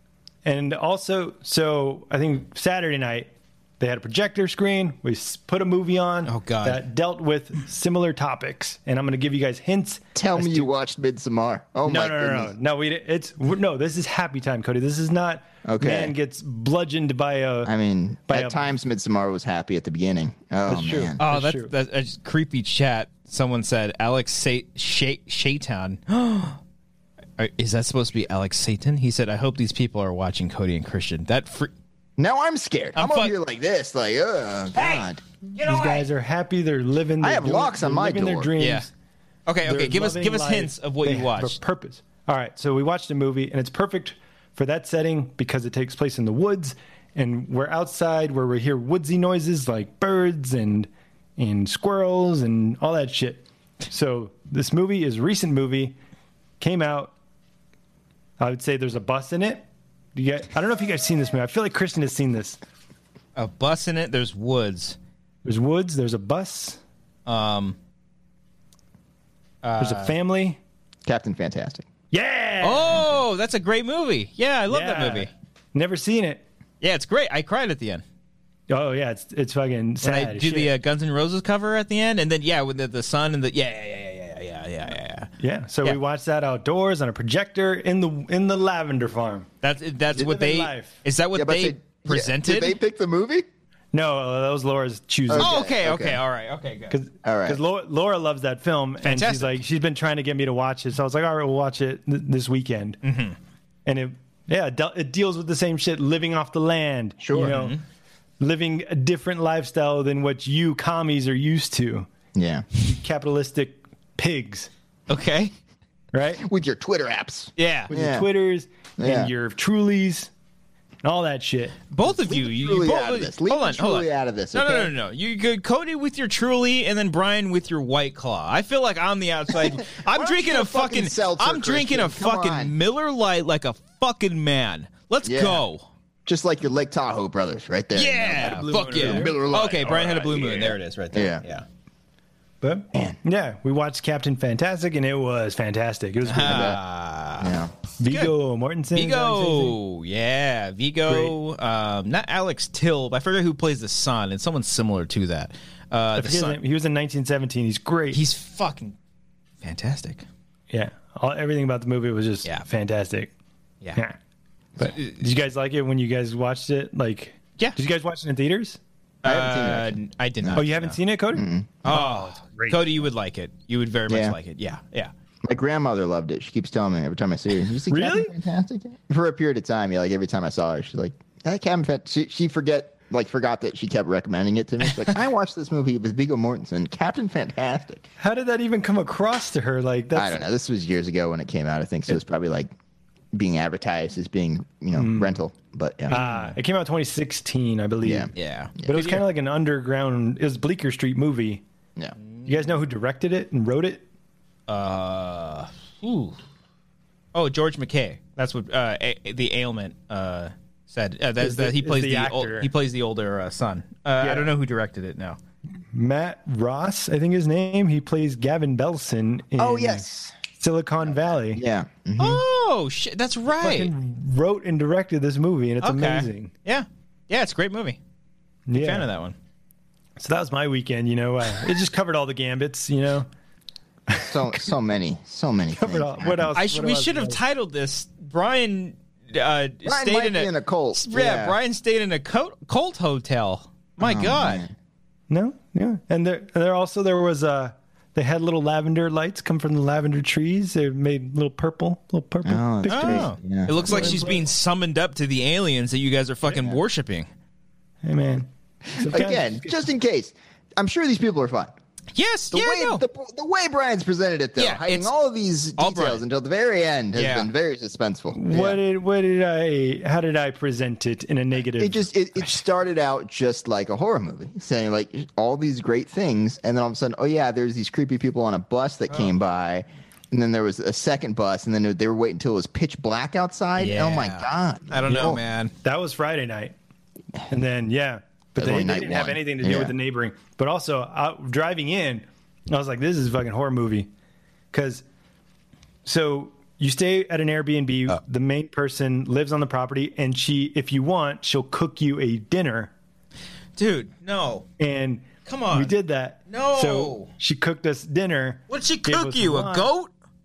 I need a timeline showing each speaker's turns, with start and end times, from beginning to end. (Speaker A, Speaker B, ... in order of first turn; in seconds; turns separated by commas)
Speaker A: 0.4-10.7, Speaker B: 6.2-6.8, Speaker C: 10.1-12.5, Speaker A: 11.8-17.7, Speaker C: 15.6-16.1, Speaker C: 17.6-21.2, Speaker A: 18.3-18.6, Speaker A: 20.7-21.7, Speaker B: 21.2-26.6, Speaker B: 27.4-31.7, Speaker C: 32.2-35.2, Speaker B: 33.0-33.3, Speaker B: 34.8-36.1, Speaker A: 35.6-38.9, Speaker C: 37.2-38.5, Speaker B: 38.6-38.9, Speaker B: 39.5-41.5, Speaker A: 39.6-56.0, Speaker A: 56.6-57.1, Speaker A: 58.4-62.6, Speaker B: 63.4-65.0, Speaker A: 65.4-66.8, Speaker B: 67.2-67.8, Speaker B: 69.6-70.1, Speaker A: 69.8-70.6, Speaker C: 71.0-71.8, Speaker A: 72.1-73.2, Speaker B: 72.6-75.3, Speaker A: 74.7-76.4, Speaker B: 76.8-78.0, Speaker A: 78.7-80.7, Speaker B: 80.0-85.3, Speaker A: 85.4-89.5, Speaker B: 89.6-92.8, Speaker A: 90.1-91.0, Speaker C: 91.3-93.5, Speaker A: 93.9-95.5, Speaker C: 95.3-96.2, Speaker B: 95.4-97.0, Speaker A: 96.9-103.0, Speaker C: 97.2-97.6, Speaker B: 99.0-99.6, Speaker B: 103.0-103.3, Speaker A: 103.8-107.8, Speaker C: 107.2-107.6, Speaker B: 107.3-107.8, Speaker A: 108.4-112.1, Speaker C: 112.3-112.7, Speaker A: 112.8-114.7, Speaker B: 115.1-115.5, Speaker A: 116.1-116.4, Speaker C: 116.4-118.3, Speaker B: 117.6-117.9, Speaker A: 117.9-120.3, Speaker C: 119.0-119.3, Speaker A: 121.0-121.8, Speaker B: 121.9-135.9, Speaker C: 122.0-124.9, Speaker C: 129.9-132.7, Speaker C: 135.2-135.6, Speaker C: 136.2-141.4, Speaker B: 137.9-141.7, Speaker A: 138.3-139.4, Speaker A: 142.6-146.8, Speaker B: 146.2-148.3, Speaker C: 146.4-146.8, Speaker C: 147.4-147.7, Speaker A: 148.0-149.8, Speaker B: 148.9-156.6, Speaker A: 151.1-151.3, Speaker A: 156.2-158.2, Speaker B: 158.1-158.9, Speaker B: 159.6-160.2, Speaker A: 160.7-163.3, Speaker A: 164.8-168.8, Speaker B: 164.8-165.1, Speaker B: 169.2-171.0, Speaker C: 169.2-170.6, Speaker A: 170.6-173.0, Speaker C: 171.3-171.7, Speaker B: 171.8-175.1, Speaker C: 174.1-174.3, Speaker C: 175.4-188.0, Speaker A: 177.9-178.3, Speaker A: 188.2-190.4, Speaker C: 190.1-192.7, Speaker C: 193.3-196.2, Speaker A: 194.9-195.4, Speaker B: 196.1-196.6, Speaker A: 196.1-198.3, Speaker C: 198.0-199.0, Speaker B: 198.3-199.2, Speaker A: 198.8-201.6, Speaker A: 202.4-204.0, Speaker B: 204.7-206.4, Speaker B: 207.3-215.4, Speaker A: 211.4-212.7, Speaker A: 214.2-214.5, Speaker A: 215.9-221.6, Speaker C: 219.6-220.3, Speaker C: 221.5-222.4, Speaker B: 222.2-223.9, Speaker A: 223.6-226.5, Speaker B: 225.8-228.0, Speaker A: 228.7-229.1, Speaker B: 228.8-229.3, Speaker A: 230.2-233.3, Speaker A: 234.1-234.4, Speaker C: 234.3-236.5, Speaker A: 235.7-237.4, Speaker B: 236.5-244.6, Speaker C: 239.8-241.6, Speaker C: 244.0-244.7, Speaker A: 245.3-253.3, Speaker C: 252.4-254.3, Speaker B: 252.9-257.3, Speaker A: 253.8-254.4, Speaker A: 258.0-259.8, Speaker C: 258.9-261.7, Speaker B: 262.1-263.0, Speaker C: 262.5-268.8, Speaker B: 264.6-265.1, Speaker B: 265.8-266.2, Speaker B: 267.1-267.5, Speaker A: 268.3-272.5, Speaker C: 271.8-285.4, Speaker B: 283.8-285.7, Speaker A: 285.1-286.7, Speaker A: 287.5-294.1, Speaker C: 288.6-289.9, Speaker A: 294.7-295.0, Speaker A: 296.0-302.9, Speaker B: 303.8-304.7, Speaker A: 304.8-309.9, Speaker B: 305.4-305.9, Speaker B: 306.5-307.3, Speaker B: 308.7-310.1